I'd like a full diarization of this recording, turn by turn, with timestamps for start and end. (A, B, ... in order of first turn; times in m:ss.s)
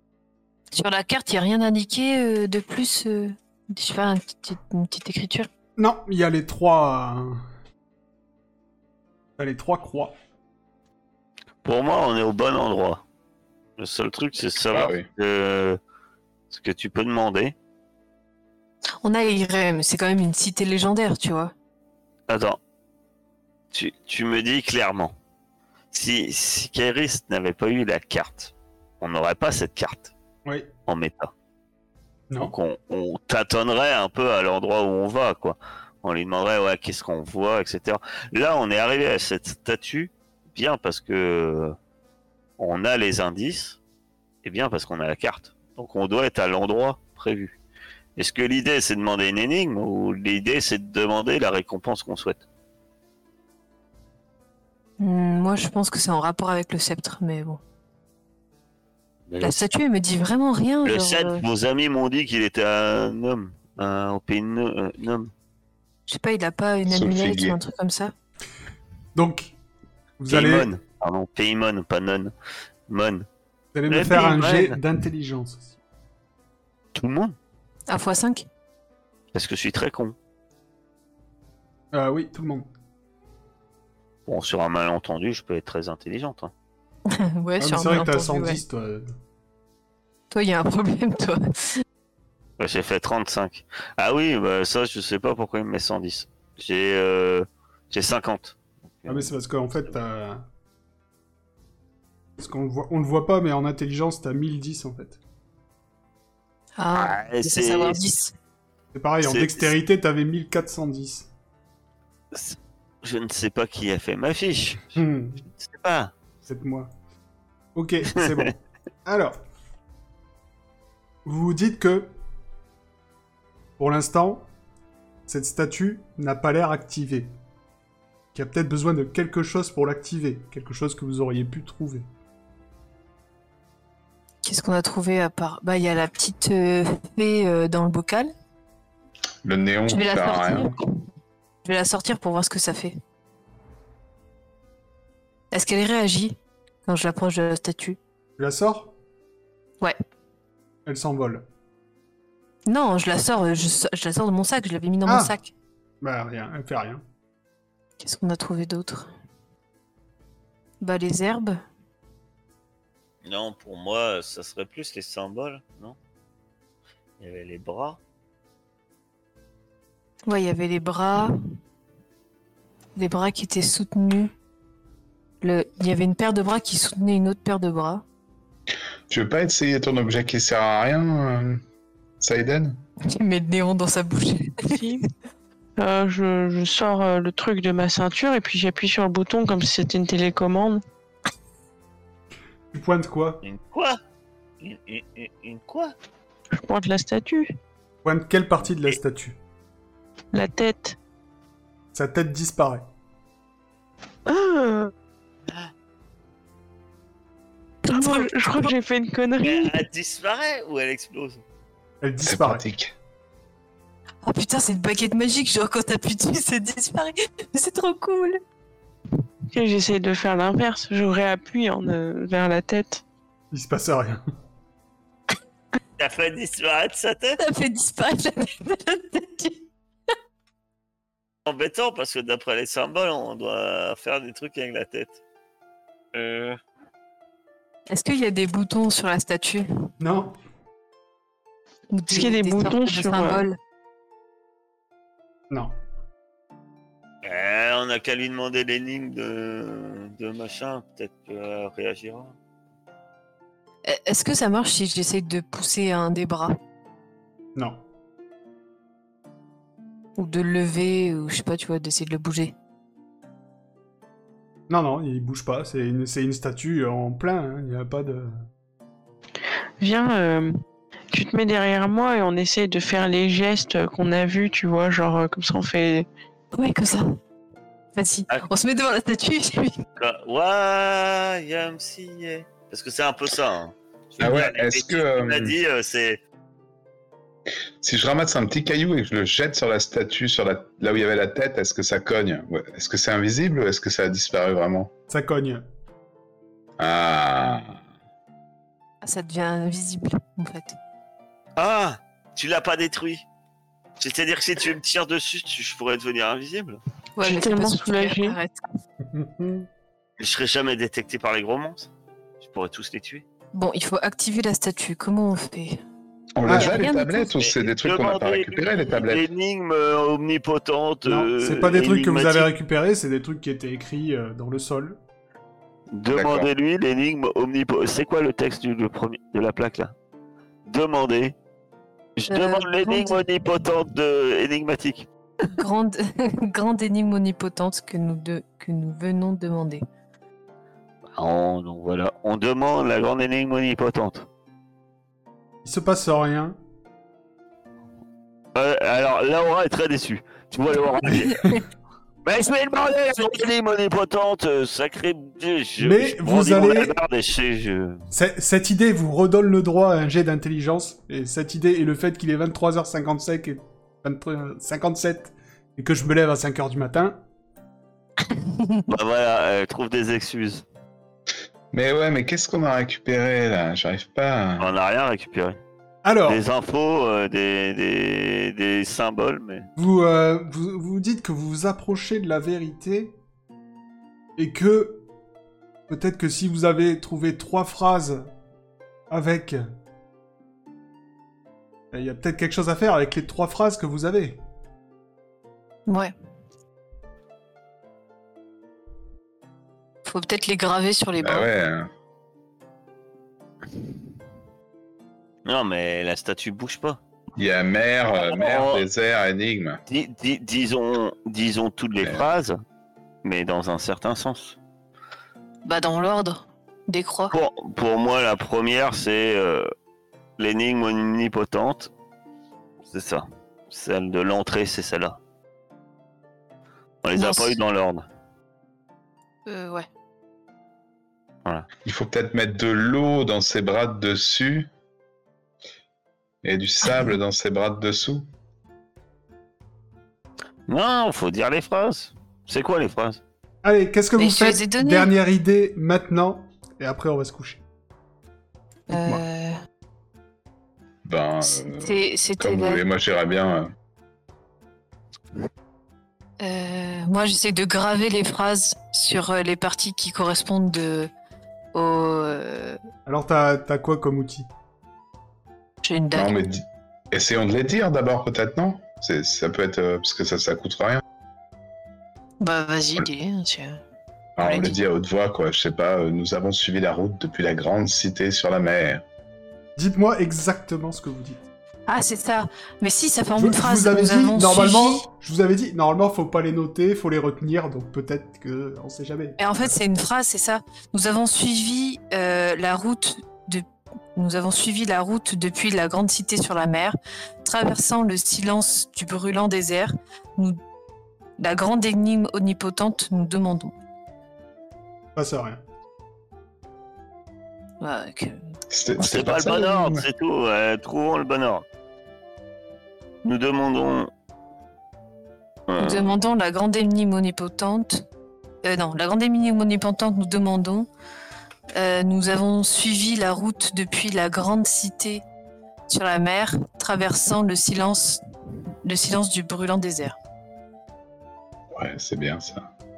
0:00.7-0:05.5 A
0:05.8-0:07.4 B
0:09.4-0:10.1 B
0:11.6-0:13.0 C
0:13.8-0:15.8 C
0:14.7-0:15.1 D
0:16.5-0:17.6 C
0:19.0-0:21.5 A
0:22.3-0:22.6 C
0:23.7-0:25.2 C
0:25.9-0:30.1 C
0:30.9-0:31.3 C
0:32.4-0:41.8 C
0:42.6-0:43.8 C
0:44.4-0:47.6 C
0:48.2-0:52.4 C
0:55.0-0:57.6 A
0:59.3-0:59.6 C
0:59.4-1:01.4 A
1:00.8-1:05.3 C
1:06.1-1:08.1 A
1:06.9-1:07.6 D
1:09.2-1:09.6 B
1:10.2-1:10.7 B
1:10.3-1:12.3 C
1:12.9-1:13.3 C
1:13.7-1:15.7 B
1:13.9-1:14.8 C
1:17.0-1:17.4 C
1:17.9-1:18.5 A
1:19.3-1:20.2 C
1:21.9-1:22.7 B
1:24.3-1:26.5 C
1:27.1-1:28.6 A
1:27.6-1:29.1 B
1:30.3-1:31.7 A
1:32.6-1:39.3 C
1:39.1-1:40.4 B
1:42.4-1:45.2 B
1:46.8-1:48.3 A
1:47.0-1:48.0 C
1:48.9-1:51.3 B
1:49.2-1:49.7 C
1:52.3-1:55.0 C
1:55.0-1:55.4 B
1:55.5-1:56.1 C
1:56.5-1:56.9 B
1:57.8-1:59.4 B
1:58.2-1:58.5 C
2:01.2-2:02.1 B
2:03.8-2:04.5 B
2:05.3-2:07.3 B
2:08.4-2:12.1 B
2:14.4-2:18.3 A
2:19.4-2:20.8 D
2:19.9-2:20.9 A
2:21.6-2:23.0 A
2:25.5-2:28.0 A
2:28.4-2:28.9 B
2:30.9-2:31.4 B
2:32.7-2:35.5 A
2:35.1-2:35.4 B
2:36.0-2:37.0 B
2:38.0-2:39.1 A
2:40.8-2:41.6 A
2:43.2-2:46.0 C
2:47.2-2:48.0 C
2:50.3-2:51.4 A
2:53.0-2:54.3 A
2:55.4-2:58.0 A
2:59.1-3:01.6 D
3:02.2-3:02.8 D
3:03.1-3:04.9 A
3:04.7-3:05.0 E
3:05.8-3:10.8 E
3:12.7-3:13.4 B
3:13.4-3:14.0 C
3:14.6-3:15.9 C
3:16.5-3:17.5 E
3:18.0-3:19.4 B
3:20.3-3:21.0 E
3:21.9-3:22.8 B
3:24.3-3:24.9 E
3:27.9-3:29.8 E
3:27.9-3:28.3 A
3:29.4-3:31.4 C
3:32.0-3:32.6 B
3:32.2-3:32.9 D
3:34.2-3:38.4 A
3:39.5-3:43.0 E
3:43.5-3:44.2 B
3:46.0-3:47.4 C
3:47.4-3:49.6 A
3:51.5-3:55.2 C
3:56.1-3:56.6 C
3:57.9-3:59.6 A
4:00.0-4:00.3 B
4:01.9-4:03.6 A
4:02.1-4:03.5 E
4:07.2-4:12.4 C
4:13.9-4:16.6 A
4:17.6-4:17.8 B
4:20.2-4:22.6 A
4:24.7-4:28.4 B
4:29.8-4:30.5 E
4:31.1-4:36.1 E
4:36.5-4:37.2 A
4:38.0-4:39.8 A
4:40.0-4:46.2 C
4:44.2-4:45.6 D
4:47.8-4:54.9 D
4:55.1-4:55.6 B
4:56.8-4:57.8 D
4:59.0-5:00.8 A
5:01.6-5:03.2 C
5:04.0-5:06.8 C
5:07.2-5:08.6 A
5:07.2-5:08.4 E
5:09.1-5:09.7 B
5:10.2-5:13.2 C
5:13.5-5:15.8 A
5:16.4-5:19.3 D
5:16.4-5:16.8 B
5:16.5-5:17.3 A
5:17.4-5:22.5 C
5:21.0-5:25.0 B
5:25.9-5:29.9 C
5:26.1-5:26.5 D
5:30.6-5:31.4 C
5:32.2-5:35.1 C
5:32.3-5:33.2 A
5:35.5-5:39.8 A
5:41.2-5:44.3 C
5:45.6-5:46.6 B
5:48.6-5:51.5 C
5:52.2-5:58.0 C
5:55.8-5:57.0 B
5:58.1-6:07.2 B
6:08.3-6:08.8 A
6:08.9-6:10.6 C
6:11.7-6:14.7 D
6:14.6-6:15.6 C
6:16.0-6:16.4 B
6:16.2-6:19.7 C
6:19.8-6:23.2 B
6:24.4-6:25.0 B
6:25.9-6:28.3 B
6:29.1-6:29.7 B
6:31.9-6:34.4 B
6:35.9-6:36.1 A
6:40.1-6:41.5 A
6:41.2-6:41.9 D
6:45.4-6:47.0 C
6:47.4-6:49.8 D
6:48.2-6:48.8 C
6:49.9-6:52.6 C
6:53.2-6:54.6 C
6:55.6-6:57.3 A
6:57.3-6:59.7 C
7:00.4-7:01.9 C
7:02.9-7:05.2 C
7:07.0-7:08.1 C
7:07.2-7:07.6 A
7:09.5-7:09.9 A
7:11.8-7:14.7 D
7:16.4-7:18.3 D
7:20.7-7:23.2 C
7:23.6-7:27.6 B
7:24.2-7:25.1 A
7:28.9-7:29.6 A
7:28.9-7:29.2 B
7:31.0-7:33.7 D
7:31.5-7:32.8 A
7:36.4-7:41.1 A
7:41.7-7:42.8 A
7:43.1-7:44.5 B
7:45.8-7:46.3 A
7:46.1-7:51.0 D
7:52.4-7:53.8 A
7:54.4-7:59.0 D
7:54.4-7:54.8 A
7:59.8-8:01.5 B
8:01.9-8:05.0 A
8:03.4-8:09.7 B
8:09.4-8:20.6 A
8:21.4-8:23.7 A
8:25.2-8:25.6 B
8:27.8-8:28.4 A
8:28.7-8:30.1 D
8:29.0-8:31.6 C
8:33.2-8:34.1 C
8:35.7-8:36.1 C
8:35.8-8:38.0 A
8:38.6-8:40.9 A
8:41.7-8:45.2 A
8:45.9-8:48.2 A
8:48.8-8:50.2 A
8:51.7-8:52.7 D